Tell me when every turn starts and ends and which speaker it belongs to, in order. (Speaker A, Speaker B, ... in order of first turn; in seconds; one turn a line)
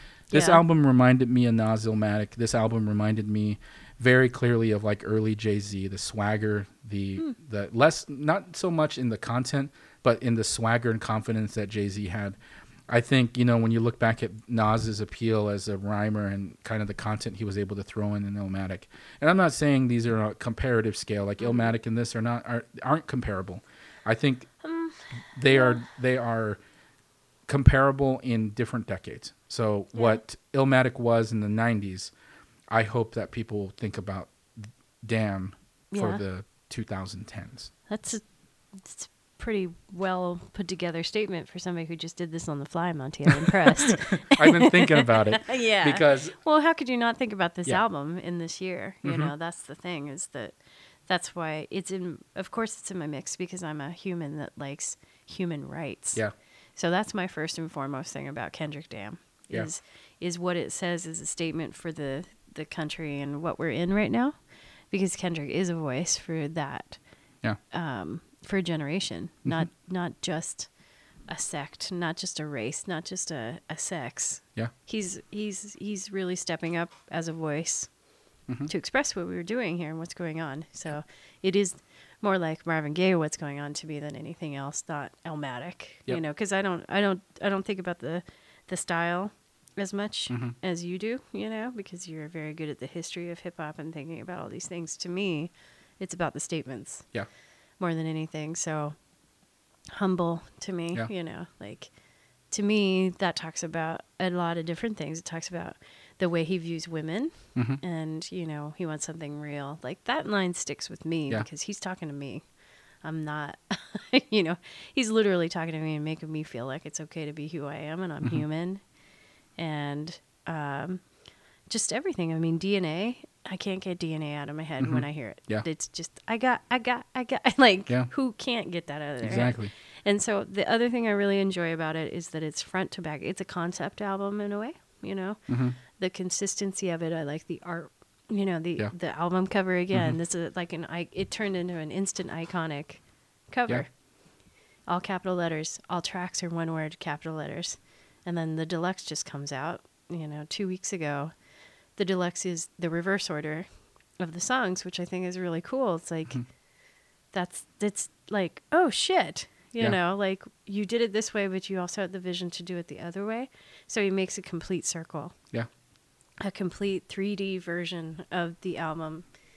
Speaker A: 0.3-24.5
Speaker B: 0.3-0.6
Speaker B: 21.4-21.7
Speaker B: 24.6-25.8
Speaker A: 25.4-26.6
Speaker A: 27.5-32.1
Speaker B: 29.9-30.2
Speaker A: 32.7-37.7
Speaker B: 35.9-36.2
Speaker B: 37.9-56.2
Speaker A: 44.2-46.4
Speaker A: 49.0-49.3
Speaker B: 56.8-64.4
Speaker B: 64.9-67.0
Speaker B: 67.7-70.7
Speaker B: 71.3-78.0
Speaker B: 78.7-97.1
Speaker A: 90.3-90.5
Speaker B: 97.8-99.0
Speaker B: 99.9-101.9
Speaker B: 102.5-112.5
Speaker A: 107.5-107.8
Speaker B: 113.0-118.8
Speaker B: 119.6-121.1
Speaker B: 121.7-144.0
Speaker A: 124.8-125.7
Speaker A: 129.2-129.7
Speaker A: 135.5-135.8
Speaker A: 139.9-140.2
Speaker B: 144.9-151.3
Speaker B: 151.9-156.5
Speaker B: 157.3-165.4
Speaker B: 166.4-169.2